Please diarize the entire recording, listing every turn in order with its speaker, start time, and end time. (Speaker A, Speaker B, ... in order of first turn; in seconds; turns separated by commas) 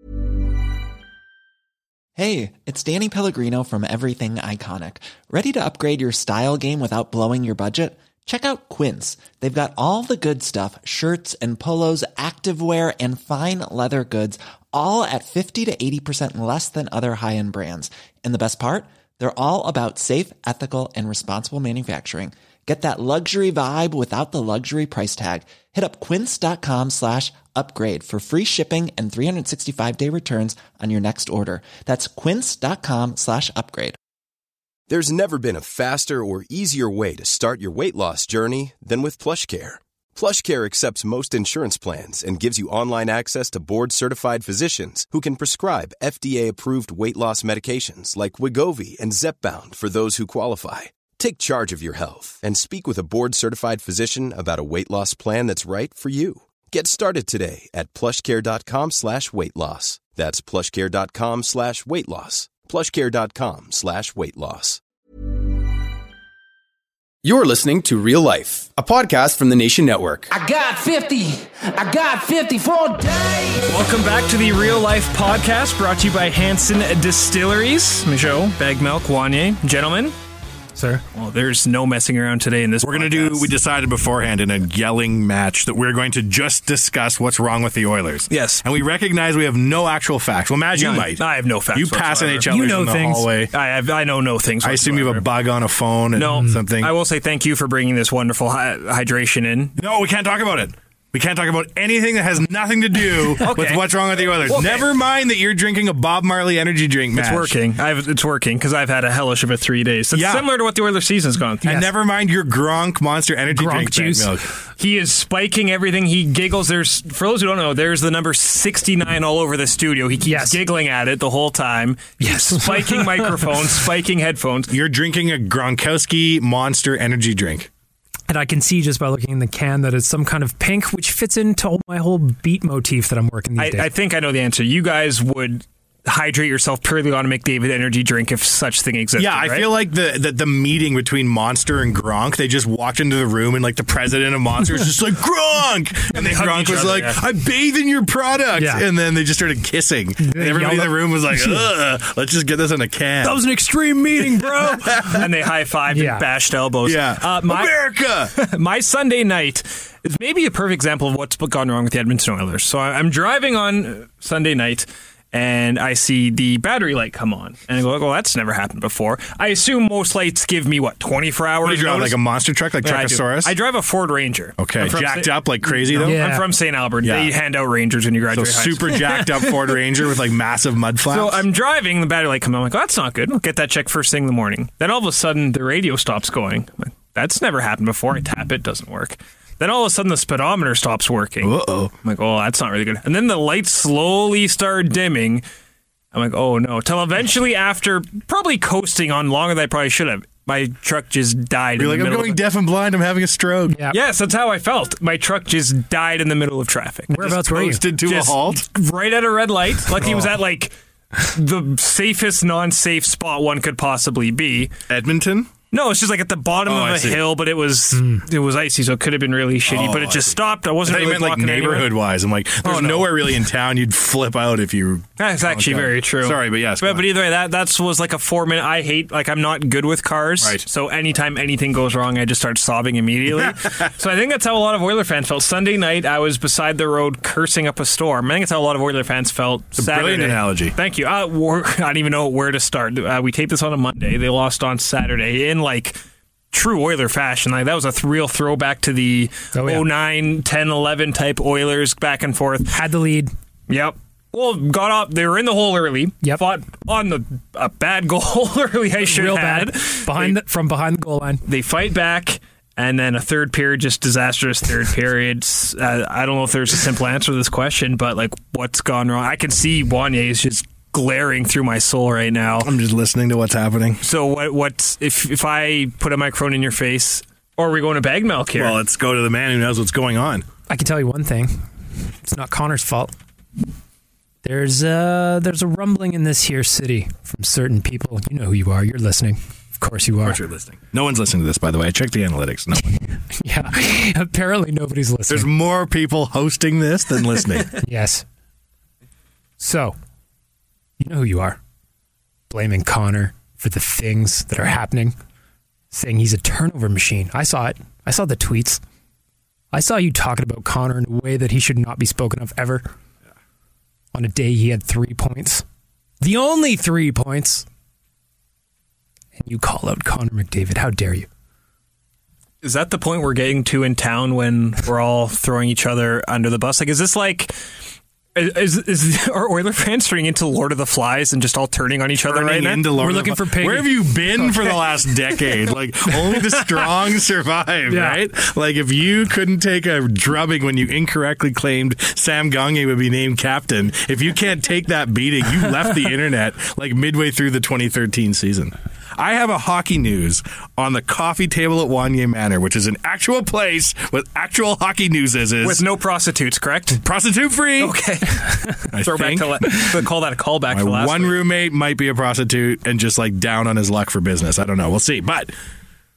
Speaker A: 2.2-34.0, Speaker B: 34.9-64.8, Speaker C: 67.2-70.3, Speaker D: 70.3-73.7, Speaker E: 73.7-80.1, Speaker F: 80.8-81.0, Speaker E: 81.1-83.5, Speaker G: 82.8-93.5, Speaker E: 88.3-88.6, Speaker E: 90.8-92.6, Speaker F: 92.5-93.3, Speaker E: 93.5-95.2, Speaker G: 94.6-96.9, Speaker E: 96.2-99.7, Speaker G: 99.8-107.6, Speaker E: 103.4-104.9, Speaker E: 107.2-111.8, Speaker G: 110.1-110.5, Speaker G: 111.6-114.5, Speaker F: 113.5-114.3, Speaker E: 114.8-124.7, Speaker F: 120.3-120.6, Speaker F: 122.2-123.3, Speaker G: 124.7-127.7, Speaker F: 128.3-133.9, Speaker E: 133.6-139.7, Speaker G: 139.2-153.6, Speaker E: 146.1-147.2, Speaker F: 148.6-148.8, Speaker F: 150.2-151.7, Speaker G: 154.1-155.3, Speaker E: 154.4-157.8, Speaker F: 155.9-156.2, Speaker G: 156.8-158.3, Speaker E: 158.3-172.2, Speaker G: 171.6-173.5, Speaker E: 172.8-179.8, Speaker G: 174.6-176.2, Speaker F: 176.0-176.4, Speaker G: 177.0-177.3, Speaker G: 178.3-181.4, Speaker E: 181.1-195.4, Speaker G: 191.4-191.9, Speaker E: 196.1-202.4, Speaker G: 201.8-203.8, Speaker F: 203.7-204.0, Speaker E: 203.9-207.2, Speaker F: 207.1-207.8, Speaker G: 207.1-208.6, Speaker E: 208.1-210.7, Speaker E: 211.2-214.7, Speaker G: 214.9-215.5, Speaker E: 215.7-221.9, Speaker G: 216.7-217.2, Speaker F: 218.0-218.2, Speaker G: 219.7-227.1, Speaker E: 222.6-223.1, Speaker E: 225.2-246.0, Speaker G: 230.4-230.7, Speaker G: 239.8-240.8, Speaker E: 246.5-252.8, Speaker F: 249.5-249.9, Speaker F: 252.7-253.3, Speaker E: 253.7-260.4, Speaker F: 259.0-261.4, Speaker E: 261.4-272.7, Speaker G: 272.6-274.0, Speaker E: 274.0-278.8, Speaker G: 278.6-280.5, Speaker F: 280.7-281.6, Speaker F: 282.2-283.1, Speaker F: 284.4-290.4, Speaker G: 290.2-293.0, Speaker F: 293.4-295.5, Speaker G: 295.3-297.7, Speaker F: 297.8-298.2, Speaker F: 299.6-300.0, Speaker F: 301.0-301.6, Speaker F: 302.5-305.1, Speaker F: 305.9-308.8, Speaker F: 309.7-312.9, Speaker F: 314.1-315.6, Speaker F: 316.2-317.7, Speaker F: 319.4-321.3, Speaker E: 322.6-327.5, Speaker E: 328.4-332.9, Speaker G: 332.2-355.8, Speaker F: 333.0-334.8, Speaker F: 336.1-336.7, Speaker F: 337.9-338.2, Speaker E: 355.6-357.0, Speaker G: 357.0-358.0, Speaker E: 357.8-361.4, Speaker G: 358.9-359.8, Speaker G: 360.7-365.5